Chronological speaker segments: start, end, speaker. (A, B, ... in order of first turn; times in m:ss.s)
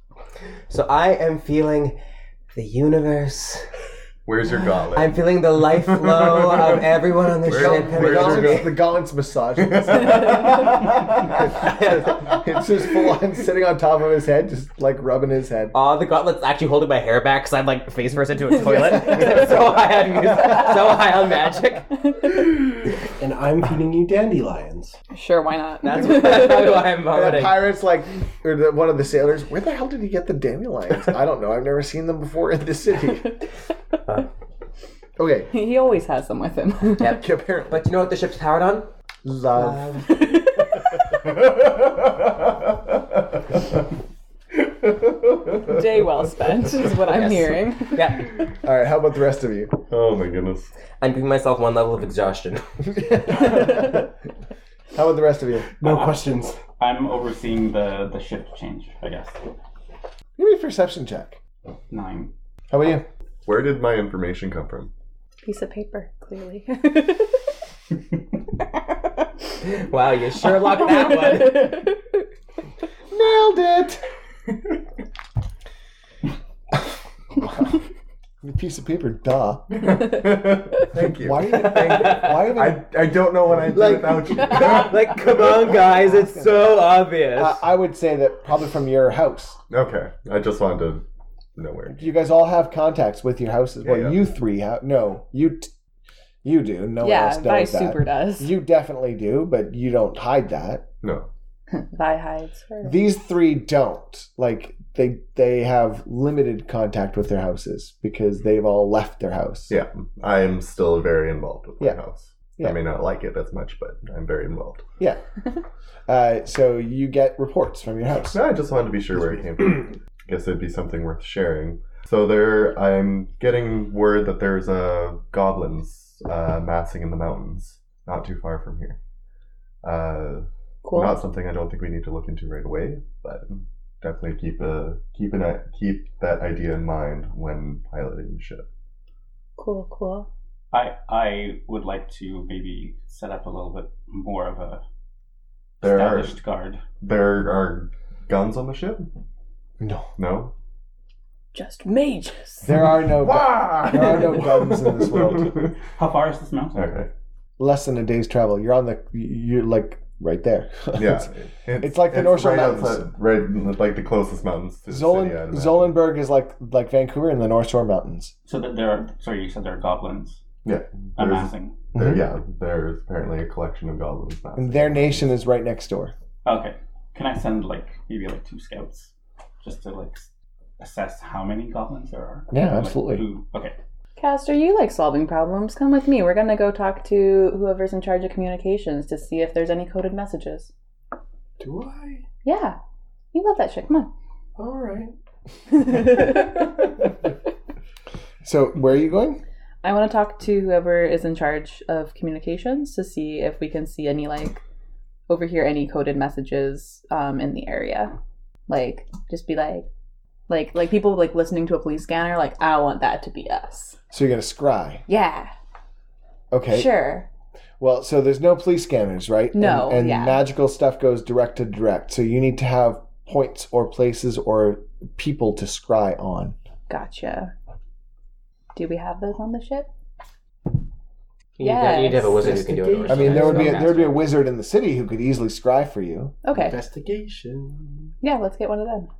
0:00.7-0:02.0 A
0:02.5-0:03.7 A
0:04.3-0:05.3 B
0:04.9-0:08.8 A
0:05.8-0:08.8 B
0:07.5-0:10.8 C
0:09.6-0:11.4 B
0:11.3-0:15.8 C
0:11.5-0:12.4 A
0:15.7-0:21.9 A
0:18.6-0:19.4 C
0:18.8-0:19.3 D
0:23.2-0:25.0 E
0:25.1-0:26.8 D
0:25.8-0:27.7 A
0:27.1-0:33.4 C
0:35.2-0:35.5 C
0:35.5-0:37.2 D
0:37.0-0:38.9 A
0:37.0-0:37.9 C
0:39.2-0:40.2 C
0:39.5-0:40.2 A
0:40.1-0:40.9 D
0:41.3-0:43.6 B
0:44.5-0:45.9 B
0:45.6-0:48.2 D
0:47.0-0:48.3 A
0:48.6-0:49.8 C
0:49.9-0:50.7 B
0:51.0-0:52.6 A
0:52.9-0:54.1 C
0:54.9-0:55.7 C
0:55.8-0:56.6 E
0:55.8-0:59.4 F
1:00.4-1:01.4 C
1:01.9-1:02.3 F
1:02.7-1:03.1 C
1:03.5-1:04.9 B
1:05.4-1:07.4 D
1:09.6-1:11.8 A
1:10.7-1:12.0 D
1:13.1-1:14.0 C
1:17.4-1:17.8 C
1:18.4-1:20.0 C
1:19.7-1:26.0 B
1:21.0-1:22.9 C
1:21.4-1:22.5 A
1:23.7-1:27.6 A
1:26.0-1:26.8 C
1:27.4-1:29.6 C
1:29.7-1:31.0 B
1:31.6-1:32.1 B
1:31.9-1:35.7 C
1:33.8-1:34.2 B
1:36.4-1:40.9 C
1:37.0-1:38.5 D
1:41.0-1:41.3 B
1:41.7-1:43.0 D
1:42.8-1:49.8 C
1:49.7-1:54.9 B
1:56.1-1:58.4 C
1:58.2-2:09.0 B
2:09.8-2:18.7 B
2:10.8-2:11.2 D
2:19.6-2:20.3 D
2:20.7-2:24.8 F
2:25.8-2:26.4 B
2:25.8-2:26.8 F
2:27.0-2:29.1 B
2:29.8-2:30.1 C
2:30.2-2:30.5 B
2:31.5-2:32.7 D
2:32.6-2:35.7 C
2:33.2-2:35.7 B
2:35.9-2:36.9 F
2:36.7-2:37.1 B
2:37.6-2:41.3 C
2:41.0-2:46.0 B
2:41.8-2:43.1 C
2:44.9-2:48.3 C
2:48.5-2:50.4 F
2:50.6-2:55.3 B
2:51.2-2:51.8 F
2:52.0-2:52.3 C
2:54.6-2:56.1 C
2:56.4-3:00.3 F
3:00.8-3:03.8 F
3:02.5-3:03.2 C
3:04.2-3:10.7 D
3:11.6-3:12.2 E
3:12.4-3:12.8 D
3:13.3-3:14.1 D
3:14.6-3:15.1 E
3:15.9-3:16.4 D
3:18.4-3:19.4 C
3:19.8-3:24.6 D
3:25.3-3:28.2 D
3:28.7-3:29.9 D
3:30.5-3:34.0 D
3:34.1-3:35.0 C
3:35.1-3:35.5 D
3:36.5-3:36.9 C
3:36.7-3:37.3 D
3:37.8-3:46.6 C
3:39.5-3:40.4 D
3:46.9-3:47.5 D
3:48.7-3:49.9 D
3:51.6-3:54.2 A
3:51.6-3:52.4 D
3:52.2-3:54.1 E
3:53.1-3:56.4 C
3:56.4-3:56.8 D
3:56.5-3:58.1 E
3:58.2-3:59.1 D